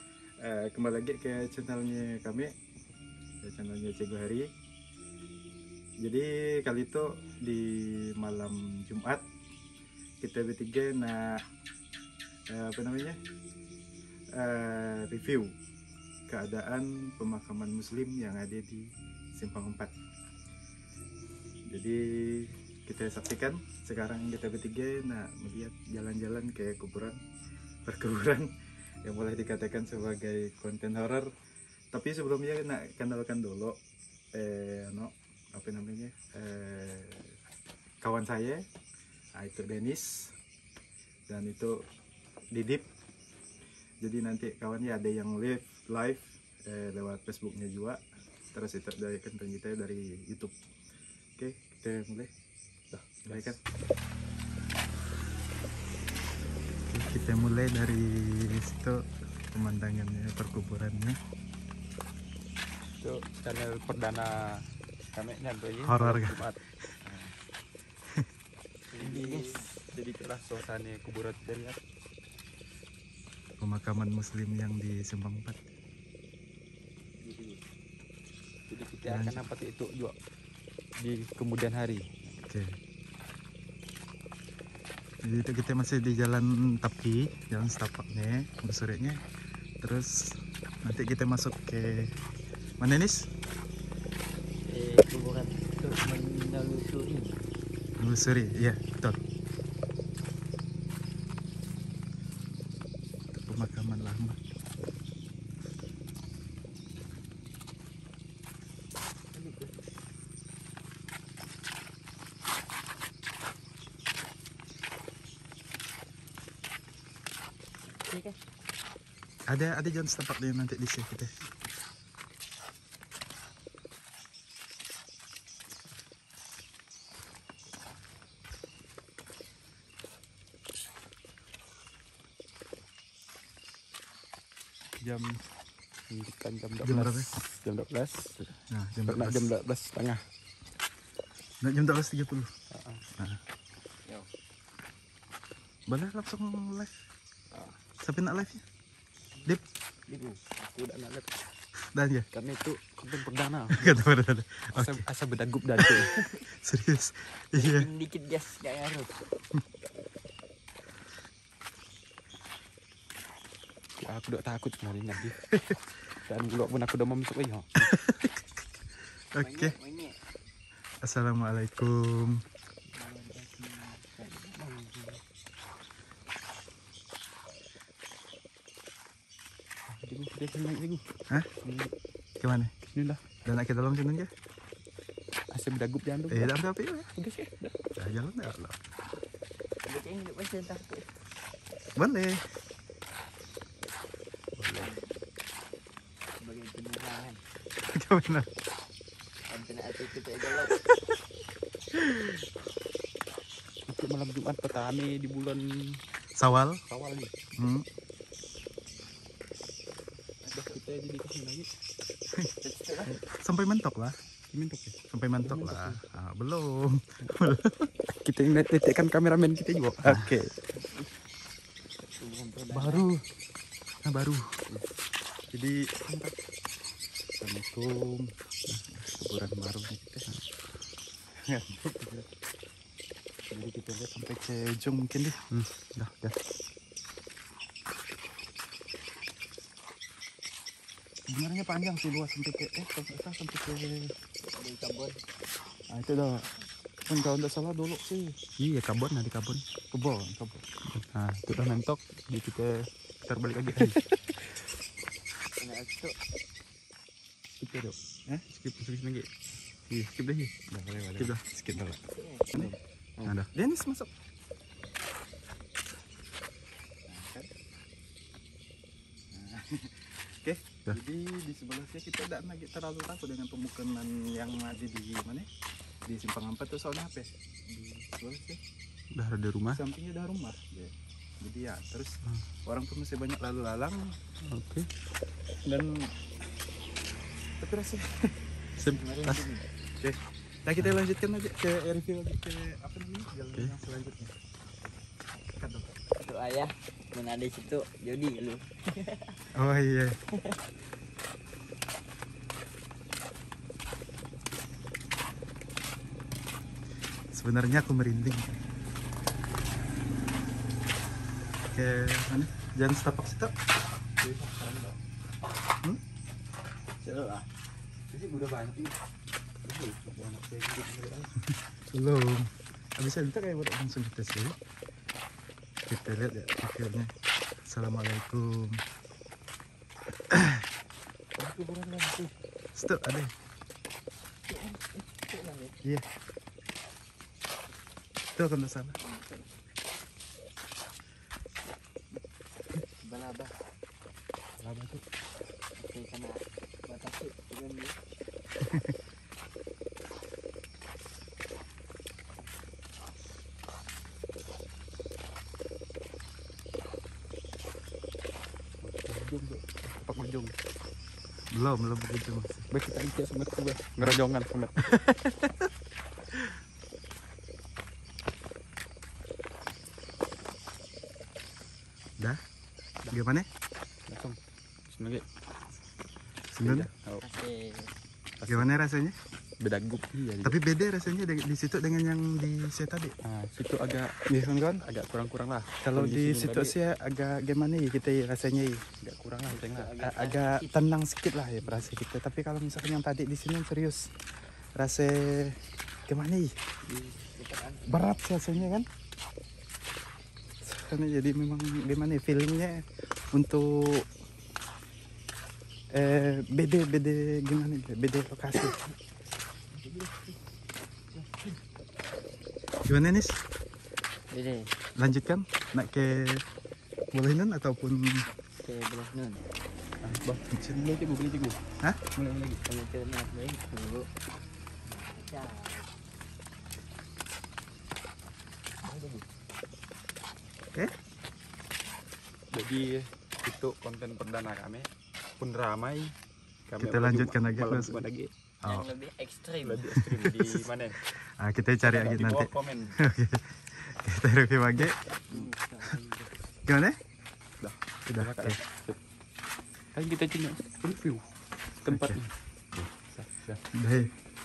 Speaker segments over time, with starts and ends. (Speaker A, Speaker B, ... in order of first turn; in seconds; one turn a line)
Speaker A: 0.4-2.5
Speaker A: 3.4-4.5
Speaker A: 6.0-9.2
Speaker A: 10.2-11.4
Speaker A: 12.5-13.2
Speaker A: 14.3-15.5
Speaker A: 16.3-19.9
Speaker A: 21.7-27.2
Speaker A: 27.9-28.5
Speaker A: 29.0-31.3
Speaker A: 31.9-33.8
Speaker A: 34.3-37.4
Speaker A: 38.0-38.6
Speaker A: 39.4-40.4
Speaker A: 41.3-41.7
Speaker A: 42.5-42.9
Speaker A: 44.0-48.0
Speaker A: 48.5-50.5
Speaker A: 51.4-52.3
Speaker B: 52.9-53.6
Speaker A: 53.2-53.6
Speaker A: 56.9-61.2
Speaker B: 63.0-64.3
Speaker B: 65.1-66.6
Speaker A: 65.8-66.5
Speaker C: 67.1-67.3
Speaker C: 68.9-69.7
Speaker B: 69.0-71.8
Speaker A: 73.6-75.7
Speaker C: 77.2-77.6
Speaker B: 78.7-80.1
Speaker A: 79.0-79.4
Speaker B: 81.0-82.1
Speaker A: 82.4-82.8
Speaker A: 85.2-89.2
Speaker A: 89.8-92.1
Speaker A: 92.8-93.3
Speaker C: 94.7-97.4
Speaker A: 98.0-99.2
Speaker A: 103.3-104.4
Speaker C: 109.3-109.7
Speaker C: 118.0-118.4
Speaker A: 119.5-121.3
Speaker B: 135.0-135.3
Speaker B: 136.1-138.5
Speaker A: 136.8-137.3
Speaker A: 138.7-139.5
Speaker B: 139.1-140.2
Speaker A: 141.6-142.5
Speaker B: 142.7-143.0
Speaker A: 145.9-147.0
Speaker A: 148.0-148.6
Speaker C: 150.1-150.6
Speaker B: 150.6-151.4
Speaker A: 151.9-152.3
Speaker B: 152.3-154.1
Speaker A: 153.7-155.1
Speaker B: 154.7-156.1
Speaker A: 155.8-157.9
Speaker C: 157.5-159.2
Speaker B: 164.0-165.4
Speaker B: 166.2-167.9
Speaker A: 167.8-168.3
Speaker A: 169.3-169.7
Speaker C: 169.4-170.2
Speaker A: 171.0-172.4
Speaker C: 172.9-175.2
Speaker B: 179.9-181.1
Speaker B: 181.6-181.9
Speaker A: 182.4-182.7
Speaker B: 182.9-183.2
Speaker A: 183.4-184.3
Speaker B: 185.5-186.5
Speaker A: 186.3-187.1
Speaker B: 187.2-187.7
Speaker A: 187.9-188.8
Speaker C: 189.8-191.1
Speaker A: 191.9-192.4
Speaker B: 194.6-194.9
Speaker C: 194.8-195.1
Speaker C: 196.4-197.4
Speaker A: 197.9-198.5
Speaker C: 199.5-200.8
Speaker A: 201.9-202.3
Speaker B: 203.9-206.0
Speaker A: 206.3-206.8
Speaker B: 206.9-207.3
Speaker A: 207.6-207.8
Speaker B: 210.4-211.7
Speaker C: 212.6-213.2
Speaker A: 213.1-214.2
Speaker B: 214.5-216.0
Speaker A: 215.1-217.9
Speaker B: 218.1-220.4
Speaker A: 220.0-220.5
Speaker C: 220.8-221.1
Speaker C: 222.0-223.1
Speaker B: 222.7-223.2
Speaker B: 224.0-224.7
Speaker A: 225.5-226.0
Speaker A: 227.4-228.3
Speaker A: 228.9-230.2
Speaker A: 231.4-232.2
Speaker A: 233.5-235.4
Speaker B: 235.5-236.3
Speaker A: 241.3-244.1
Speaker C: 244.5-245.2
Speaker A: 245.9-246.5
Speaker A: 247.1-248.4
Speaker B: 248.6-249.6
Speaker A: 249.9-250.7
Speaker B: 250.9-252.7
Speaker B: 253.2-254.0
Speaker A: 253.8-254.3
Speaker C: 255.6-256.1
Speaker B: 257.6-257.9
Speaker B: 258.5-259.3
Speaker B: 259.9-260.5
Speaker A: 260.7-262.0
Speaker C: 262.1-262.8
Speaker A: 262.5-264.1
Speaker B: 263.2-263.5
Speaker A: 267.1-267.5
Speaker A: 269.3-275.5
Speaker A: 276.1-278.6
Speaker B: 279.1-279.8
Speaker A: 279.7-284.1
Speaker B: 284.5-284.9
Speaker A: 285.6-286.1
Speaker A: 287.6-288.3
Speaker B: 288.8-289.4
Speaker C: 288.8-289.6
Speaker A: 290.0-294.3
Speaker A: 295.6-295.9
Speaker C: 296.2-299.3
Speaker A: 299.5-300.2
Speaker A: 307.3-308.6
Speaker A: 311.7-313.5
Speaker B: 314.2-315.0
Speaker B: 317.0-317.4
Speaker B: 318.1-318.9
Speaker B: 319.6-321.4
Speaker A: 321.9-324.6
Speaker A: 325.9-327.1
Speaker A: 327.6-328.8
Speaker A: 330.3-330.6
Speaker B: 331.4-332.3
Speaker A: 332.7-333.3
Speaker C: 334.5-335.8
Speaker A: 338.4-339.0
Speaker C: 339.0-339.5
Speaker C: 343.0-343.7
Speaker B: 344.6-345.0
Speaker C: 345.8-348.0
Speaker A: 348.6-348.9
Speaker B: 358.8-360.5
Speaker A: 361.5-362.7
Speaker B: 362.7-365.0
Speaker A: 364.8-365.7
Speaker A: 373.1-373.5
Speaker B: 374.1-374.4
Speaker B: 374.9-375.2
Speaker A: 376.5-376.9
Speaker B: 376.6-377.2
Speaker C: 377.2-377.9
Speaker B: 378.4-378.7
Speaker A: 378.5-379.2
Speaker B: 379.6-380.6
Speaker A: 380.4-383.1
Speaker B: 383.2-384.2
Speaker A: 384.3-384.9
Speaker B: 384.8-386.8
Speaker A: 385.8-388.9
Speaker B: 389.0-389.9
Speaker C: 389.5-390.7
Speaker A: 390.0-396.5
Speaker B: 391.6-391.9
Speaker C: 396.9-398.6
Speaker A: 397.9-398.9
Speaker A: 400.6-404.1
Speaker A: 405.9-408.8
Speaker C: 409.7-410.4
Speaker C: 411.1-411.6
Speaker A: 412.8-413.4
Speaker C: 414.3-414.7
Speaker A: 414.9-416.4
Speaker A: 417.1-418.3
Speaker C: 418.5-419.4
Speaker B: 420.0-421.6
Speaker B: 422.1-422.6
Speaker C: 422.6-424.1
Speaker C: 424.9-425.9
Speaker C: 428.8-429.2
Speaker B: 432.5-436.1
Speaker B: 436.7-438.3
Speaker A: 436.8-438.1
Speaker A: 438.6-438.9
Speaker C: 438.6-439.9
Speaker B: 439.6-441.0
Speaker A: 439.9-445.0
Speaker B: 441.8-443.0
Speaker C: 445.3-446.3
Speaker A: 446.6-447.0
Speaker B: 447.6-449.0
Speaker A: 448.1-448.6
Speaker B: 449.9-454.0
Speaker A: 451.9-452.2
Speaker A: 453.7-454.1